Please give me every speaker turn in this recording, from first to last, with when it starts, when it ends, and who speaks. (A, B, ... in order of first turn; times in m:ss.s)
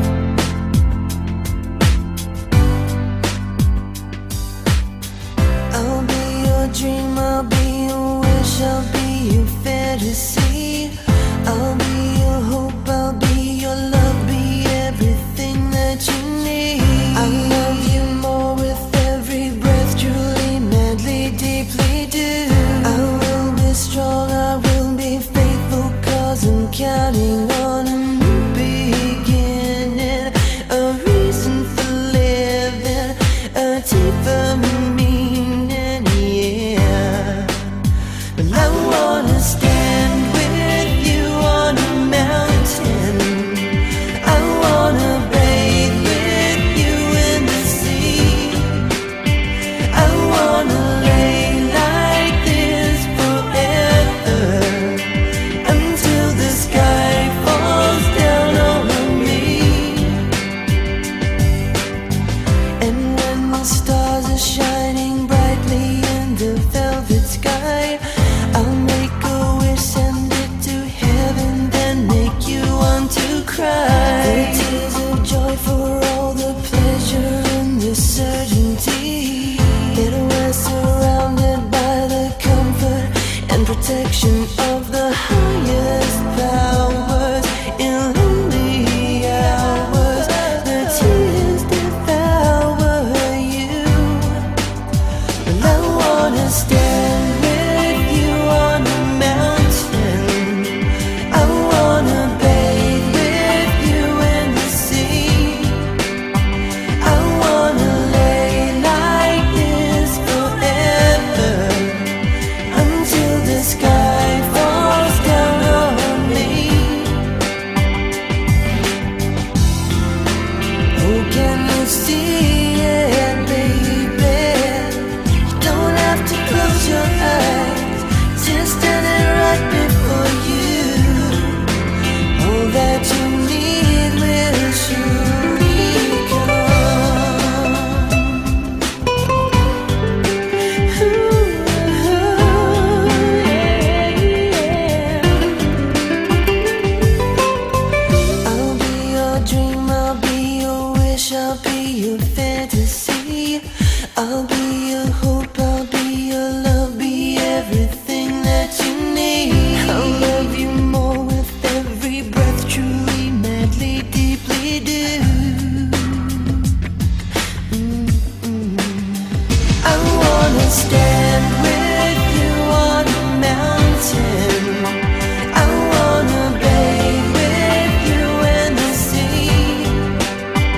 0:05.7-0:37.7 A
0:38.4-0:48.8 A
0:49.8-1:00.3 A
1:02.8-1:34.5 A
1:35.4-1:45.9 A
1:47.0-1:57.2 A
2:00.9-2:11.7 A
2:12.3-2:18.4 A
2:20.7-2:25.6 A
2:28.4-2:46.6 A
2:47.7-2:49.2 A
2:49.8-3:00.1 A